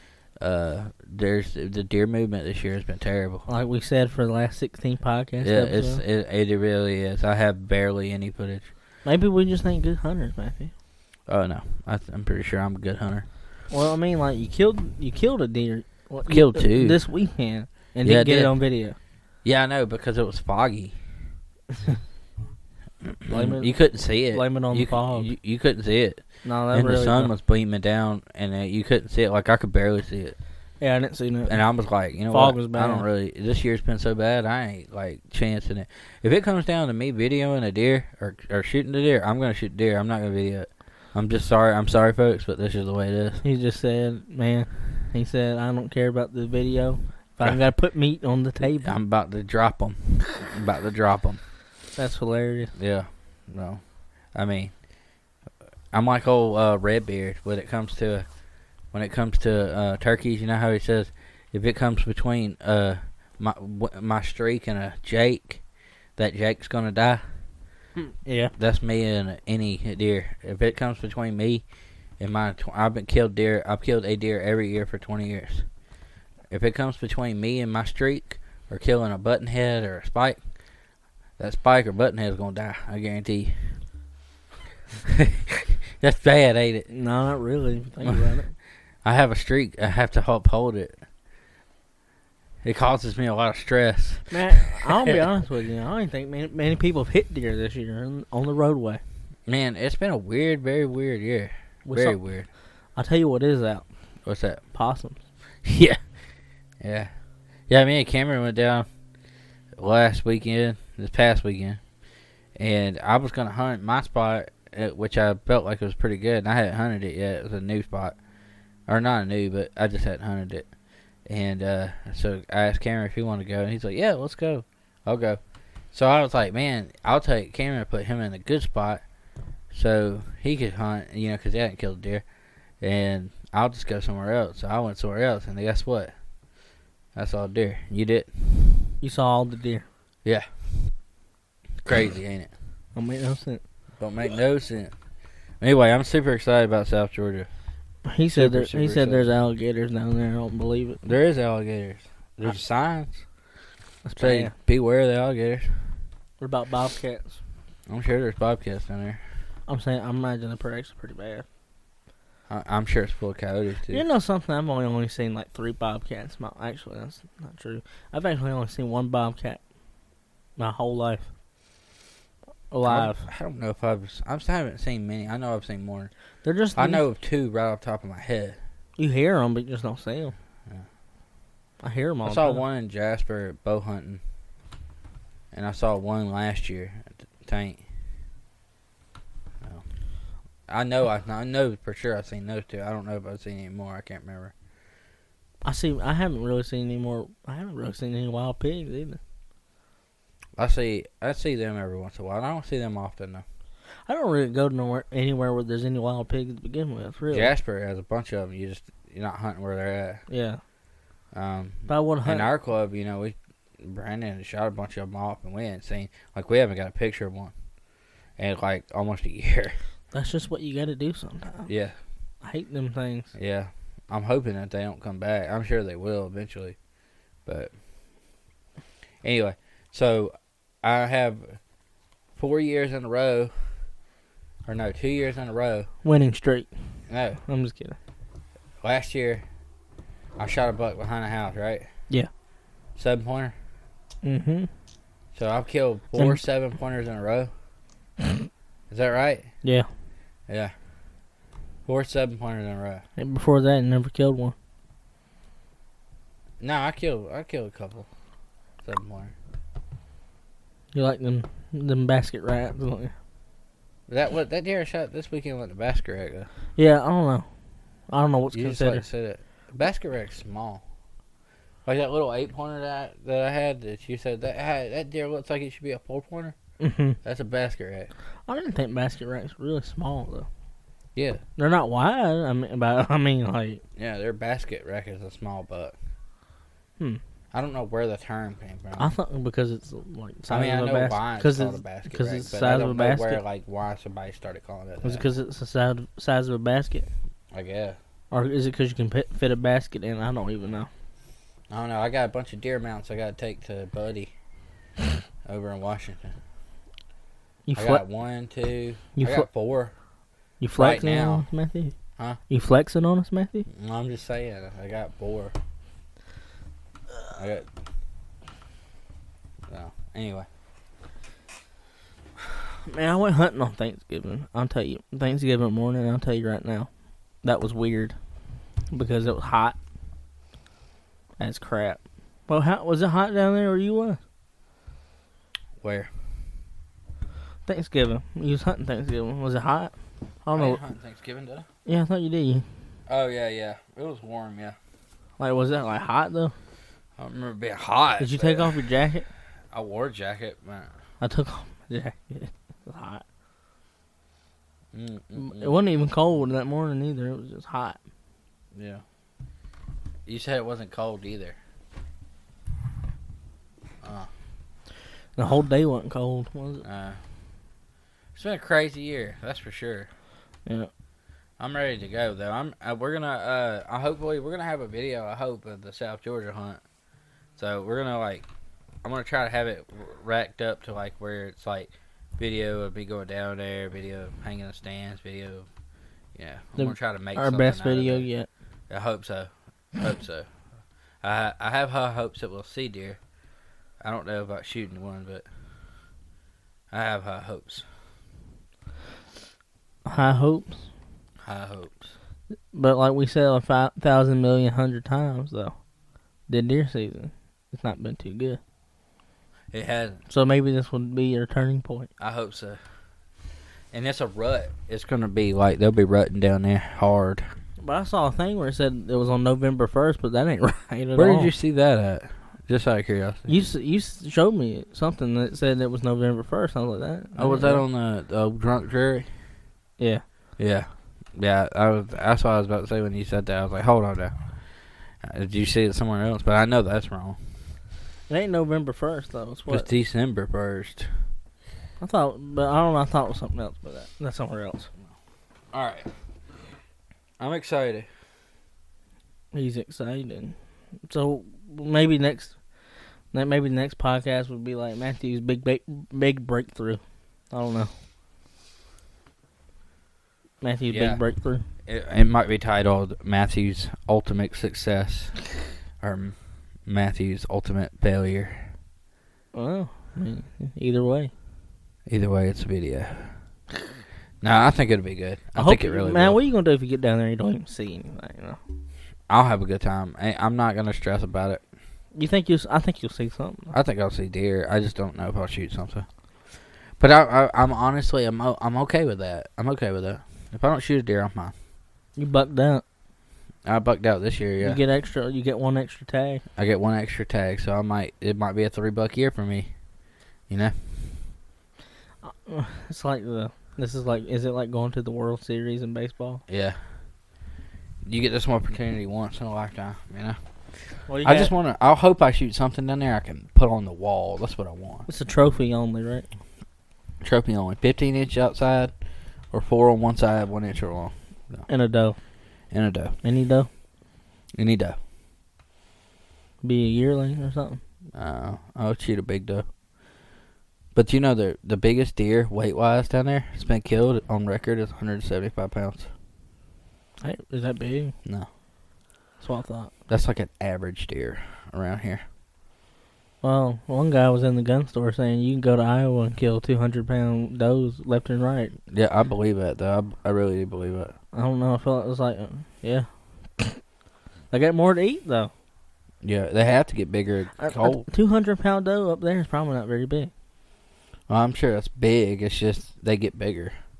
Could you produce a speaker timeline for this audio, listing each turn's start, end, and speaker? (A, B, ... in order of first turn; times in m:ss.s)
0:00.4-0:03.4 A
0:03.5-0:06.0 B
0:05.4-0:08.7 A
0:09.0-0:10.7 B
0:11.3-0:13.3 A
0:13.7-0:19.0 B
0:16.3-0:17.0 A
0:18.0-0:18.5 A
0:19.4-0:21.0 A
0:23.2-0:30.4 A
0:23.3-0:23.8 B
0:24.3-0:25.3 B
0:26.4-0:27.3 B
0:30.8-0:31.6 B
0:31.4-0:43.4 A
0:32.3-0:33.1 B
0:43.4-0:48.9 B
0:48.8-0:51.4 A
0:52.0-0:52.7 B
0:52.8-0:53.8 A
0:54.3-0:54.7 A
0:55.9-0:58.2 A
0:58.9-1:05.6 A
1:06.2-1:07.2 A
1:08.2-1:08.5 B
1:08.6-1:11.6 A
1:12.2-1:15.6 A
1:16.5-1:20.4 A
1:21.4-1:23.8 A
1:25.2-1:26.9 A
1:26.9-1:28.5 B
1:29.0-1:31.0 A
1:32.6-1:35.2 A
1:34.3-1:39.0 B
1:39.5-1:42.5 A
1:41.8-1:42.2 B
1:43.0-1:43.8 B
1:44.2-1:44.6 A
1:44.7-1:45.2 B
1:45.6-1:46.0 A
1:46.8-1:47.1 A
1:47.7-1:48.8 A
1:49.8-1:51.8 A
1:52.6-1:58.2 A
1:58.9-2:00.7 A
2:01.2-2:05.4 A
2:05.9-2:09.0 A
2:09.7-2:12.2 A
2:12.8-2:16.1 A
2:17.1-2:18.9 A
2:19.0-2:19.8 B
2:21.8-2:22.5 A
2:22.9-2:23.6 B
2:24.0-2:24.9 A
2:25.6-2:27.5 A
2:28.1-2:31.0 B
2:28.3-2:29.3 A
2:31.0-2:33.2 A
2:34.0-2:34.5 B
2:34.2-2:35.8 A
2:36.4-2:37.4 B
2:37.9-2:39.2 A
2:39.7-2:41.4 B
2:42.5-2:44.0 A
2:43.9-2:49.6 B
2:50.6-2:51.3 B
2:52.7-2:53.2 B
2:52.8-2:56.1 A
2:56.4-2:57.0 B
2:56.8-2:58.6 A
2:59.0-3:00.3 B
3:01.8-3:02.6 B
3:02.2-3:04.2 A
3:05.5-3:07.8 A
3:10.7-3:14.5 A
3:15.6-3:19.2 B
3:20.6-3:23.4 A
3:24.1-3:27.5 B
3:27.3-3:30.2 A
3:30.3-3:30.6 B
3:31.3-3:37.5 A
3:31.9-3:32.5 B
3:38.4-3:39.8 A
3:40.1-3:41.7 B
3:41.7-3:42.0 A
3:42.4-3:43.3 B
3:43.3-3:46.8 A
3:47.4-3:47.7 A
3:49.2-3:51.6 A
3:52.4-3:53.7 A
3:54.6-3:55.9 A
3:56.0-3:56.7 B
3:57.1-3:57.4 A
3:57.4-3:58.0 B
3:58.8-3:59.4 A
4:00.4-4:01.9 A
4:03.0-4:03.5 A
4:04.2-4:04.7 B
4:05.3-4:07.5 A
4:08.9-4:09.5 A
4:09.6-4:09.9 B
4:10.5-4:10.7 A
4:11.8-4:13.0 A
4:13.2-4:14.5 B
4:16.6-4:18.1 A
4:18.8-4:19.3 A
4:20.9-4:23.1 B
4:24.1-4:26.5 A
4:26.8-4:27.5 B
4:28.1-4:29.0 B
4:28.5-4:30.8 A
4:31.8-4:36.5 A
4:36.8-4:37.2 B
4:37.2-4:38.1 A
4:38.5-4:40.5 B
4:41.2-4:41.4 A
4:41.6-4:43.8 B
4:44.0-4:46.0 A
4:47.5-4:49.1 A
4:49.0-4:53.4 B
4:50.5-4:55.2 A
4:55.0-4:57.1 B
4:57.5-4:58.0 A
4:58.3-5:00.9 B
5:01.7-5:04.3 A
5:05.4-5:06.3 A
5:07.7-5:08.0 B
5:07.8-5:09.9 A
5:09.2-5:09.5 B
5:10.6-5:11.9 B
5:10.8-5:11.4 A
5:12.5-5:13.6 B
5:13.7-5:15.5 A
5:17.3-5:17.7 A
5:19.7-5:20.5 A
5:22.8-5:26.9 B
5:27.4-5:28.2 B
5:28.9-5:29.8 B
5:31.4-5:34.2 B
5:35.8-5:36.1 A
5:37.6-5:39.9 B
5:40.4-5:40.8 B
5:40.5-5:41.6 A
5:41.8-5:42.6 B
5:43.1-5:44.8 A
5:45.4-5:46.5 B
5:47.2-5:48.8 A
5:48.2-5:49.2 B
5:49.7-5:50.9 A
5:51.2-5:53.2 B
5:54.9-5:55.8 A
5:55.4-5:58.0 B
5:58.7-5:59.0 A
6:00.2-6:01.6 A
6:04.0-6:04.3 A
6:05.4-6:06.8 B
6:06.8-6:07.2 A
6:08.3-6:10.1 A
6:11.6-6:16.8 A
6:17.6-6:18.5 A
6:19.0-6:25.7 A
6:26.3-6:28.3 A
6:26.8-6:28.5 B
6:28.9-6:30.5 A
6:31.2-6:33.2 A
6:34.0-6:35.4 A
6:36.9-6:37.8 A
6:40.0-6:40.9 B
6:41.4-6:42.1 A
6:42.7-6:45.7 B
6:46.5-6:48.6 B
6:49.7-6:50.2 A
6:50.3-6:52.1 B
6:52.2-6:52.8 A
6:53.9-6:57.5 A
6:57.8-7:01.5 B
7:01.1-7:03.5 A
7:03.5-7:07.8 B
7:07.4-7:09.3 A
7:10.0-7:10.2 B
7:10.6-7:14.4 A
7:15.2-7:17.4 A
7:18.3-7:19.9 B
7:19.7-7:21.1 A
7:22.0-7:24.9 B
7:25.7-7:26.1 A
7:27.4-7:28.1 A
7:29.5-7:32.6 B
7:33.3-7:37.9 B
7:40.6-7:41.6 B
7:40.9-7:41.2 A
7:41.8-7:46.4 A
7:46.9-7:48.7 A
7:49.5-7:51.3 B
7:52.1-7:53.4 A
7:54.4-7:56.4 A
7:55.6-7:58.6 B
7:59.3-8:01.6 A
8:02.1-8:03.7 B
8:03.7-8:06.0 A
8:07.0-8:11.5 A
8:12.2-8:12.8 B
8:13.6-8:14.8 A
8:14.6-8:16.4 B
8:16.6-8:19.7 A
8:20.5-8:20.9 A
8:22.2-8:26.4 B
8:26.5-8:26.8 A
8:28.0-8:30.4 A
8:31.1-8:31.5 B
8:31.2-8:35.1 A
8:35.1-8:36.3 B
8:37.2-8:38.9 A
8:39.5-8:41.7 A
8:41.7-8:42.2 B
8:42.7-8:43.2 A
8:43.2-8:43.7 B
8:44.5-8:45.0 A
8:46.6-8:47.8 B
8:48.2-8:49.6 A
8:50.9-8:56.1 A
8:57.2-8:58.1 B
8:59.4-8:59.9 B
9:00.1-9:02.2 A
9:03.4-9:08.7 B
9:08.9-9:11.1 A
9:11.3-9:13.8 B
9:14.5-9:15.5 B
9:16.2-9:18.0 A
9:17.6-9:20.3 B
9:21.3-9:23.7 A